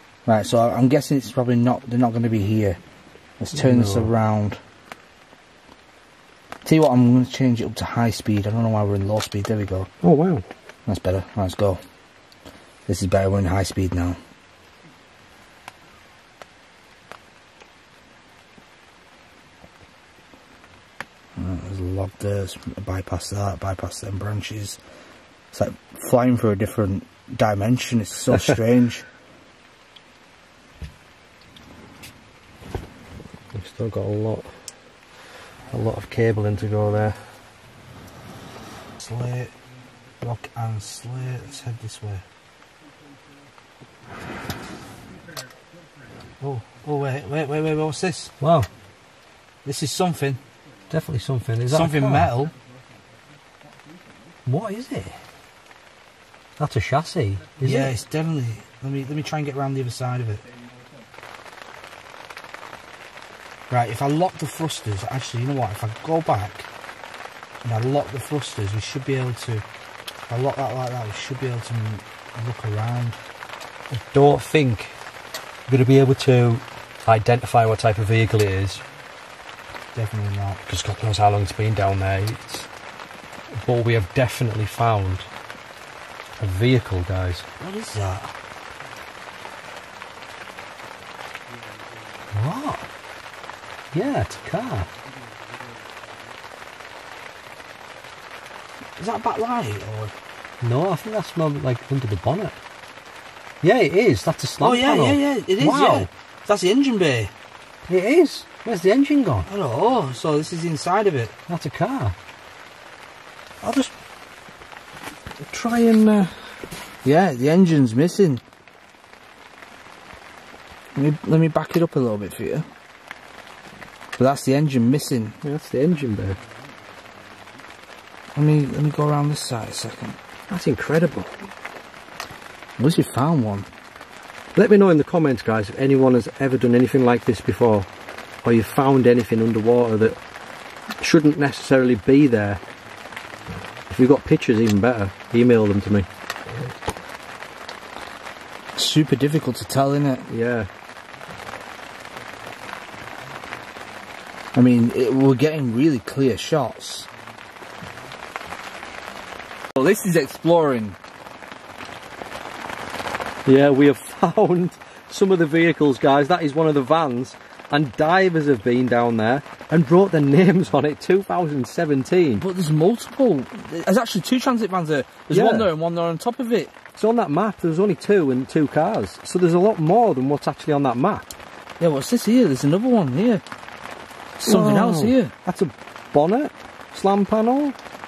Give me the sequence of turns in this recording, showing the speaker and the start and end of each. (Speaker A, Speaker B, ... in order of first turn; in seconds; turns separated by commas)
Speaker A: 0.2-2.8, Speaker A: 3.4-4.6, Speaker B: 3.5-4.1, Speaker A: 6.6-9.9, Speaker B: 10.0-10.4, Speaker A: 10.8-11.8, Speaker A: 12.9-14.2, Speaker A: 21.4-24.8, Speaker A: 25.5-29.0, Speaker B: 33.5-34.5, Speaker B: 35.7-37.2, Speaker A: 39.0-39.5, Speaker A: 40.2-42.2, Speaker A: 46.6-48.3, Speaker B: 48.4-48.7, Speaker A: 49.6-50.4, Speaker B: 50.9-52.5, Speaker A: 51.7-52.5, Speaker B: 54.5-55.2, Speaker B: 56.6-57.9, Speaker A: 57.6-60.5, Speaker A: 63.7-66.7, Speaker A: 67.6-69.6, Speaker A: 70.3-73.2, Speaker B: 73.9-75.0, Speaker B: 75.7-78.8, Speaker A: 79.9-80.6, Speaker B: 80.7-82.7, Speaker B: 83.5-85.3, Speaker B: 86.4-87.4, Speaker A: 87.6-88.3, Speaker B: 92.3-92.8, Speaker B: 93.9-94.9, Speaker A: 99.0-100.1, Speaker B: 100.6-102.6, Speaker B: 103.6-106.1, Speaker A: 104.6-107.3, Speaker B: 107.9-109.5, Speaker A: 109.5-111.3, Speaker B: 111.5-112.2, Speaker B: 113.6-113.9, Speaker B: 115.5-116.3, Speaker A: 117.0-118.4, Speaker A: 120.9-122.7, Speaker A: 124.2-125.4, Speaker B: 125.4-126.4, Speaker A: 128.3-130.2, Speaker B: 130.5-131.3, Speaker A: 132.8-133.7, Speaker B: 134.5-137.9, Speaker B: 138.4-140.2, Speaker B: 141.0-142.6, Speaker B: 143.9-146.1, Speaker A: 148.8-150.3, Speaker B: 150.3-150.7, Speaker A: 154.5-157.1, Speaker A: 159.7-161.0, Speaker B: 163.4-172.4, Speaker A: 172.4-176.7, Speaker B: 175.3-175.7, Speaker B: 177.0-181.3, Speaker A: 181.8-183.4, Speaker A: 184.4-185.3, Speaker B: 184.4-187.8